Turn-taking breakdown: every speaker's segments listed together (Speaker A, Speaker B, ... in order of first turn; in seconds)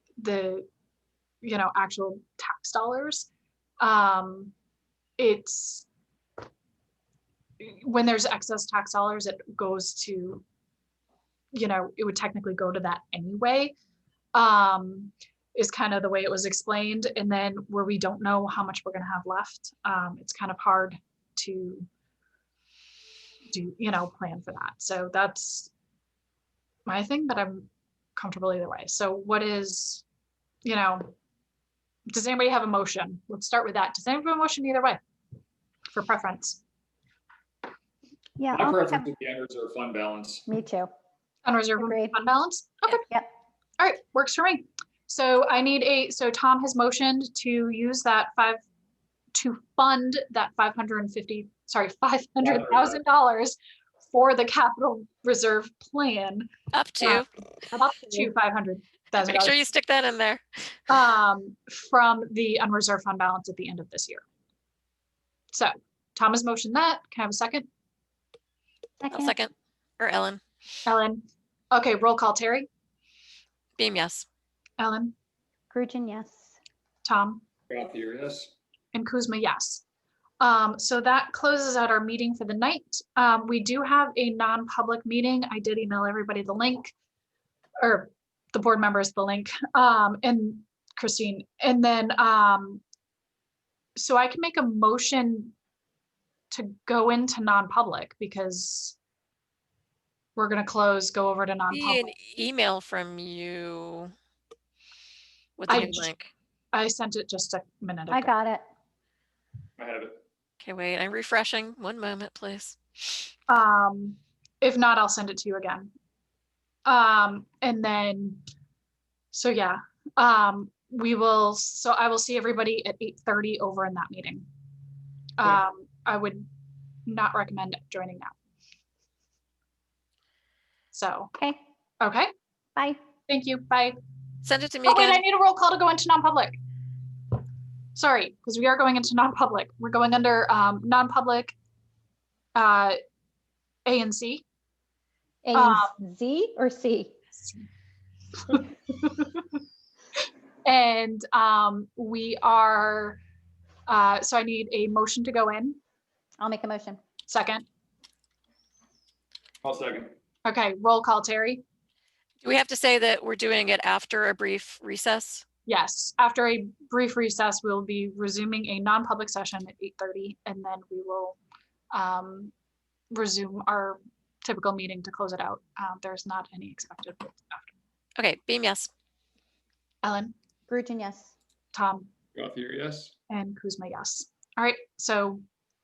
Speaker A: 0.2-0.7, 1.4-3.3, 3.8-4.5, 5.2-5.9, 7.6-10.4, 11.5-13.7, 14.3-21.9, 23.5-25.7, 26.9-30.0, 30.6-31.1, 32.1-35.0, 35.9-36.6, 41.4-43.0, 43.8-48.6, 49.3-53.6, 54.1-56.5, 57.8-59.6, 60.9-64.2, 65.5-67.7, 70.8-72.7, 74.8-75.1, 77.0-77.4, 78.9-79.8, 80.4-86.9, 87.8-92.8, 94.0-95.5, 96.5-99.0, 100.3-102.1, 105.7-106.1, 106.7-108.3, 113.5-115.9, 116.8-118.4, 119.3-124.5, 125.4-126.5, 127.0-128.3, 130.9-131.3, 132.0-132.3, 133.3-134.0, 134.8-136.6, 137.9-141.5, 142.5-143.0, 143.8-144.4, 145.5-145.9, 147.3-147.7, 148.5-149.4, 150.6-153.2, 153.9-155.8, 157.3-157.6, 160.4-161.6, 165.7-171.4, 171.9-172.5, 173.1-177.7, 180.0-180.3, 181.7-182.1, 183.3-185.4
Speaker B: 38.4-39.0, 40.5-40.9, 41.8-42.1, 42.9-43.3, 57.7-58.3, 69.0-69.3, 75.7-76.5, 108.1-108.6, 145.4-147.1, 156.4-157.0, 180.7-181.3
Speaker C: 38.5-40.5, 52.4-53.0, 77.7-78.5, 109.8-110.2, 159.6-160.1, 182.3-183.1
Speaker D: 56.7-57.3, 59.2-60.4, 69.1-70.4, 73.8-74.2, 101.7-104.1, 105.6-106.3, 110.6-112.8, 134.4-135.2, 162.4-165.4, 178.2-178.9